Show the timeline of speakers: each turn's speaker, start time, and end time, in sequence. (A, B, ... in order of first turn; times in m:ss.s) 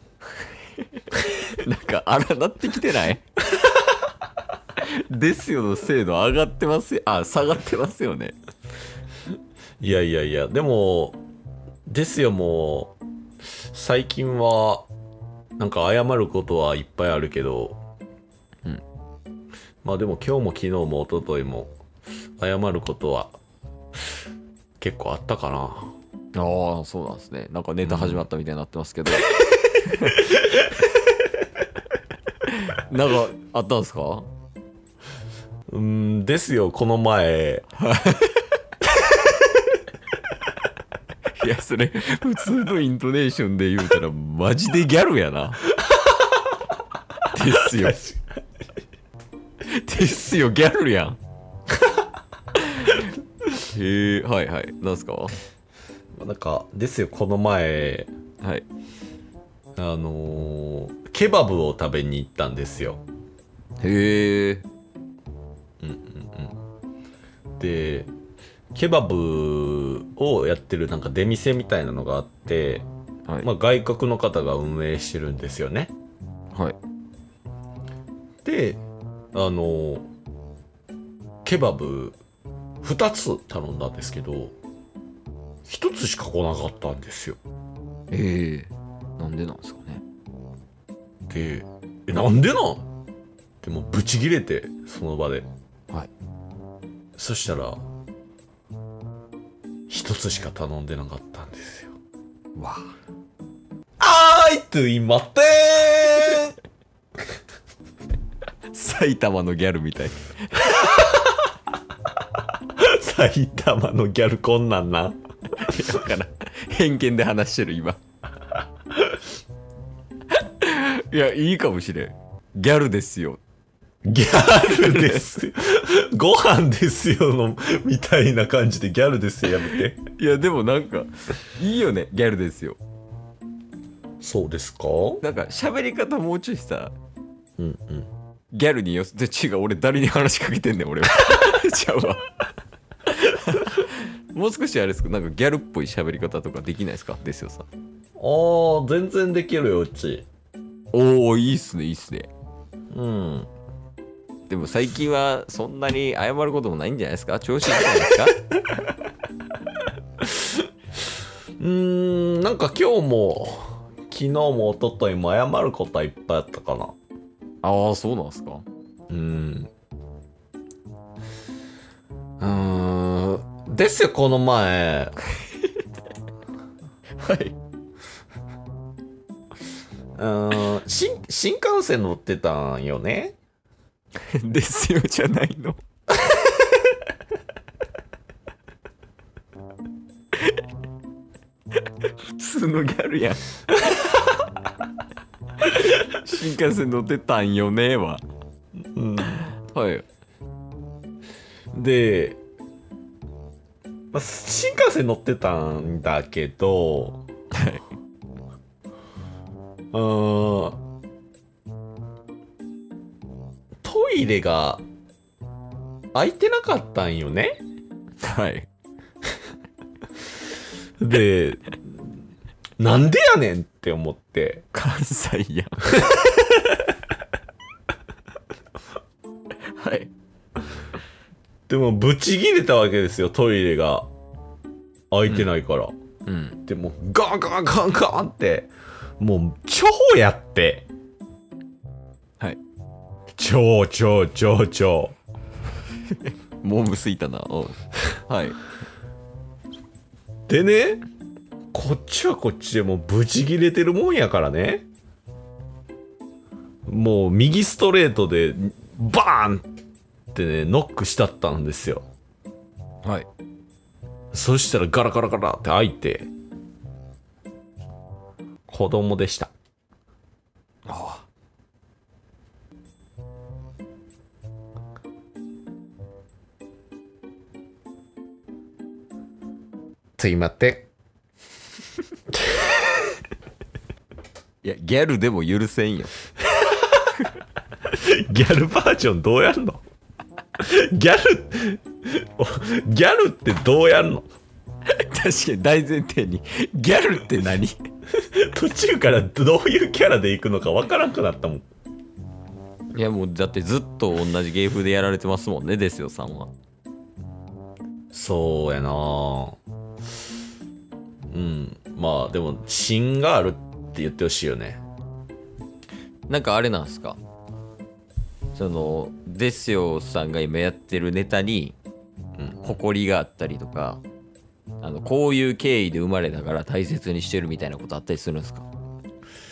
0:01.0-0:03.2 A
0:04.8-0:08.4 A
0:09.8-0:11.2 B
0:11.9-0:12.9 B
0:13.7-0:14.9 B
0:15.6-0:17.8 B
0:19.8-0:21.7 B
0:22.4-0:23.4 B
0:24.8-0:25.9 B
0:26.4-0:30.4 A
0:27.8-0:28.3 B
0:32.4-0:34.3 A
0:35.7-0:37.6 B
0:37.8-0:38.4 A
0:41.4-0:45.6 A
0:47.3-0:48.1 A
0:49.6-0:51.2 A
0:52.6-0:53.1 A
0:53.6-0:55.3 A
0:56.2-0:58.1 B
0:59.8-1:03.0 B
1:03.8-1:04.6 A
1:05.8-1:06.6 B
1:07.6-1:08.1 B
1:08.7-1:12.8 B
1:13.4-1:15.9 B
1:18.4-1:18.8 B
1:19.3-1:20.1 B
1:21.4-1:22.2 B
1:22.8-1:24.5 B
1:25.6-1:27.4 B
1:28.1-1:30.0 A
1:31.3-1:32.8 B
1:33.6-1:35.5 B
1:37.2-1:37.8 B
1:39.9-1:42.0 B
1:42.6-1:42.9 A
1:44.0-1:46.5 B
1:48.7-1:51.1 A
1:52.8-1:55.2 B
1:55.5-1:58.0 A
2:00.3-2:03.4 A
2:04.0-2:10.0 B
2:04.6-2:05.2 A
2:09.7-2:12.8 A
2:14.2-2:15.2 B
2:15.2-2:16.9 A
2:17.6-2:18.1 B
2:18.5-2:22.2 A
2:23.0-2:27.7 A
2:28.2-2:30.3 B
2:30.9-2:32.3 A
2:32.9-2:33.5 B
2:34.5-2:38.4 A
2:41.6-2:46.9 B
2:47.6-2:48.6 A
2:49.1-2:49.7 B
2:52.4-2:55.2 B
2:57.2-2:57.6 A
3:00.2-3:03.4 B
3:04.2-3:05.8 A
3:12.0-3:13.6 A
3:15.6-3:18.2 A
3:18.9-3:19.4 B
3:19.6-3:20.0 A
3:21.7-3:22.4 B
3:24.1-3:27.2 B
3:27.5-3:27.8 A
3:29.9-3:30.8 B
3:33.8-3:34.8 B
3:36.1-3:37.6 B
3:38.2-3:38.7 A
3:41.0-3:41.9 B
3:42.8-3:44.6 B
3:44.7-3:46.0 A
3:46.0-3:46.4 B
3:49.6-3:50.1 A
3:51.7-3:54.1 B
3:55.1-3:55.9 B
3:56.2-3:56.6 A
3:56.6-4:00.9 B
4:03.4-4:05.2 B
4:06.2-4:08.6 A
4:10.5-4:11.0 B
4:11.7-4:14.8 B
4:16.9-4:19.6 B
4:20.3-4:22.0 B
4:24.3-4:26.3 B
4:28.7-4:29.5 B
4:30.8-4:31.2 A
4:40.2-4:40.9 B
4:44.6-4:46.1 A
4:47.8-4:49.8 B
4:50.6-4:54.2 B
4:54.9-4:57.8 A
4:58.1-5:01.6 B
5:02.9-5:06.5 A
5:08.1-5:09.6 B
5:11.3-5:14.8 B
5:16.3-5:17.2 A
5:18.5-5:21.8 A
5:22.4-5:22.6 B
5:22.6-5:24.0 A
5:24.8-5:28.7 A